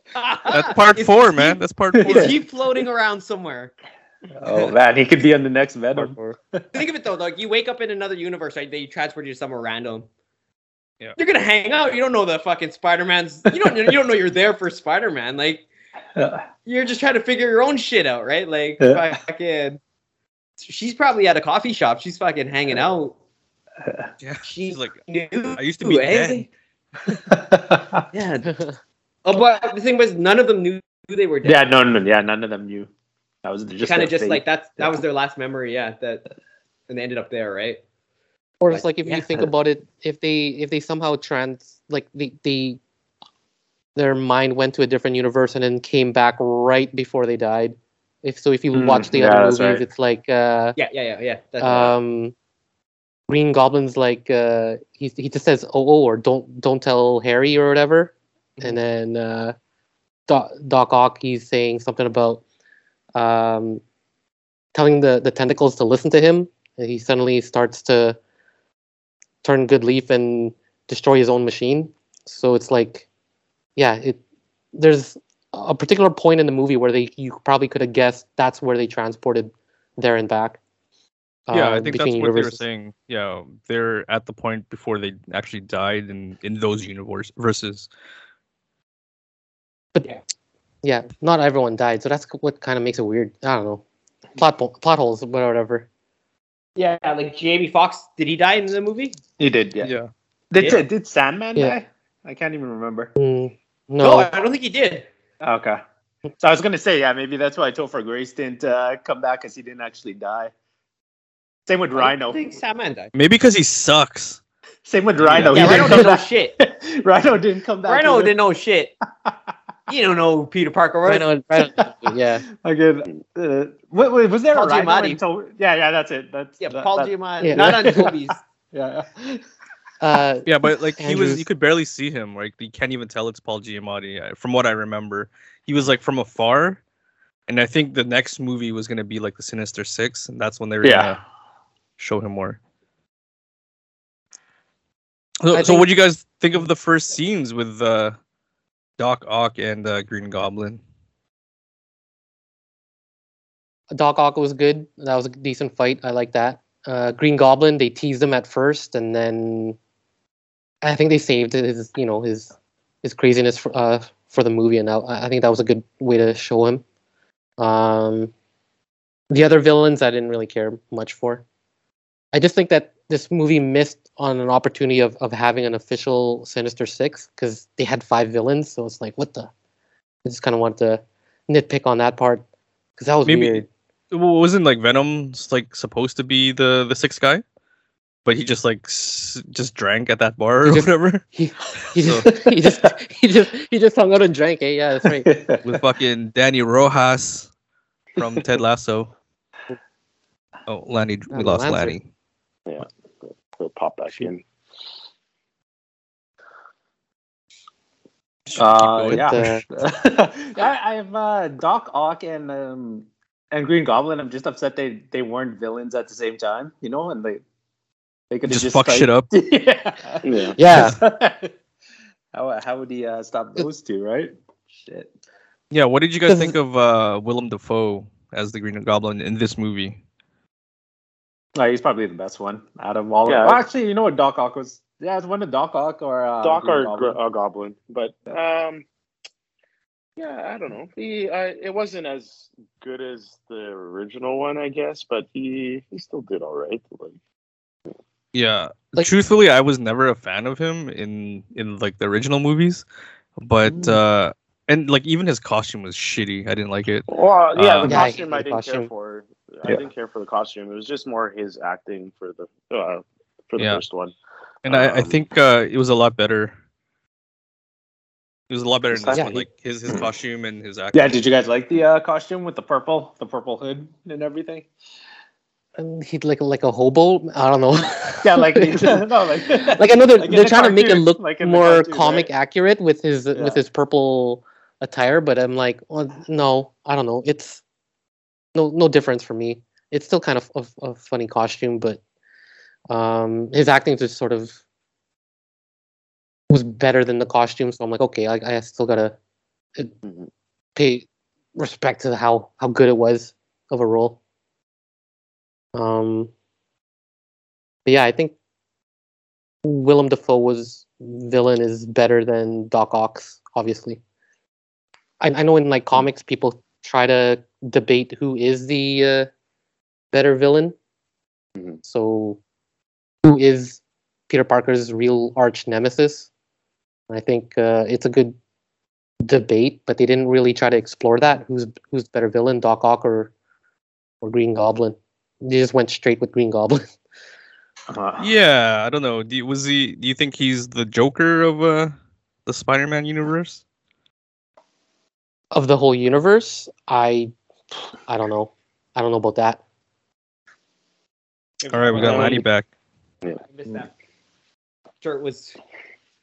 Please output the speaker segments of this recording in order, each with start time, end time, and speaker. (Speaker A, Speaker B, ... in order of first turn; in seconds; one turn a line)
Speaker A: 0.1-3.7
Speaker B: 0.5-2.4
Speaker C: 1.9-2.4
Speaker C: 4.4-6.7
Speaker A: 4.5-4.7
Speaker A: 6.7-10.1
Speaker A: 11.2-15.7
Speaker C: 16.2-16.4
Speaker A: 16.7-19.8
Speaker C: 18.8-19.2
Speaker A: 20.6-23.2
Speaker B: 24.2-25.0
Speaker A: 24.4-26.5
Speaker B: 25.6-26.5
Speaker C: 27.3-28.0
Speaker A: 28.1-28.6
Speaker A: 29.2-31.8
Speaker C: 31.4-32.9
Speaker C: 33.4-35.0
Speaker A: 33.8-36.2
Speaker A: 36.9-37.8
Speaker D: 38.6-42.8
Speaker A: 38.7-39.2
Speaker D: 44.0-50.8
Speaker C: 48.7-49.9
Speaker A: 50.8-52.0
Speaker D: 51.6-52.3
Speaker D: 53.3-59.5
Speaker D: 60.3-62.4
Speaker D: 63.1-63.8
Speaker D: 64.7-68.2
Speaker D: 69.4-73.1
Speaker D: 73.8-74.2
Speaker D: 74.7-80.6
Speaker D: 81.5-82.6
Speaker B: 81.5-87.9
Speaker D: 90.8-93.8
Speaker D: 94.4-95.9
Speaker A: 96.8-99.2
Speaker C: 99.4-99.9
Speaker B: 99.8-100.1
Speaker C: 100.5-103.1
Speaker A: 100.6-100.9
Speaker D: 103.2-104.3
Speaker A: 104.0-105.1
Speaker C: 105.4-105.8
Speaker C: 106.4-110.5
Speaker C: 111.7-112.5
Speaker A: 111.9-113.1
Speaker B: 113.2-114.4
Speaker C: 114.8-118.3
Speaker B: 115.2-116.0
Speaker A: 115.5-116.5
Speaker A: 117.8-118.9
Speaker A: 119.9-121.3
Speaker D: 121.1-122.4
Speaker C: 122.5-128.2
Speaker A: 124.5-125.2
Speaker A: 126.6-128.4
Speaker D: 127.4-128.0
Speaker C: 128.7-129.4
Speaker D: 130.0-131.4
Speaker B: 130.4-136.8
Speaker B: 137.5-141.2
Speaker C: 140.8-141.2
Speaker B: 142.0-142.6
Speaker B: 145.4-148.2
Speaker D: 145.5-145.9
Speaker B: 149.0-150.8
Speaker D: 153.9-159.8
Speaker D: 160.8-166.8
Speaker D: 167.6-168.3
Speaker D: 169.3-171.4
Speaker D: 172.3-179.5
Speaker D: 180.2-182.4
Speaker D: 183.0-183.7
Speaker B: 183.2-187.4
Speaker B: 188.3-191.2
Speaker D: 190.6-195.3
Speaker B: 191.9-192.3
Speaker C: 192.3-192.6
Speaker C: 195.1-195.7
Speaker B: 195.6-197.5
Speaker B: 198.2-199.1
Speaker B: 200.7-202.0
Speaker D: 201.3-202.0
Speaker E: 202.7-204.4
Speaker B: 208.5-209.3
Speaker C: 208.6-217.4
Speaker D: 209.1-209.6
Speaker C: 218.3-221.5
Speaker B: 218.5-219.3
Speaker E: 220.2-220.6
Speaker D: 220.6-221.0
Speaker C: 222.3-225.1
Speaker B: 225.7-230.0
Speaker D: 226.3-226.6
Speaker C: 231.6-237.2
Speaker E: 233.2-233.7
Speaker E: 236.4-238.8
Speaker E: 240.2-247.2
Speaker B: 248.3-252.8
Speaker B: 253.4-258.0
Speaker C: 253.7-254.0
Speaker E: 257.1-264.1
Speaker D: 257.9-258.9
Speaker B: 263.6-263.8
Speaker B: 264.6-266.6
Speaker E: 264.7-265.2
Speaker B: 268.5-271.2
Speaker C: 268.9-269.4
Speaker D: 269.1-269.4
Speaker C: 270.9-274.7
Speaker D: 275.8-287.6
Speaker C: 278.2-282.3
Speaker C: 283.3-283.6
Speaker D: 288.6-292.0
Speaker D: 292.9-294.6
Speaker D: 296.5-299.2
Speaker E: 300.0-300.3
Speaker D: 300.8-304.2
Speaker D: 305.8-306.3
Speaker D: 307.9-308.4
Speaker D: 309.6-314.0
Speaker D: 315.2-319.3
Speaker D: 320.1-320.8
Speaker D: 321.8-322.4
Speaker D: 323.2-326.3
Speaker D: 327.1-328.4
Speaker D: 329.2-333.3
Speaker D: 334.2-336.8
Speaker C: 337.9-338.3
Speaker B: 338.2-341.9
Speaker B: 342.5-343.6
Speaker D: 345.5-349.6
Speaker A: 351.6-352.4
Speaker B: 351.7-352.7
Speaker D: 352.0-352.3
Speaker A: 353.4-353.9
Speaker A: 355.0-355.6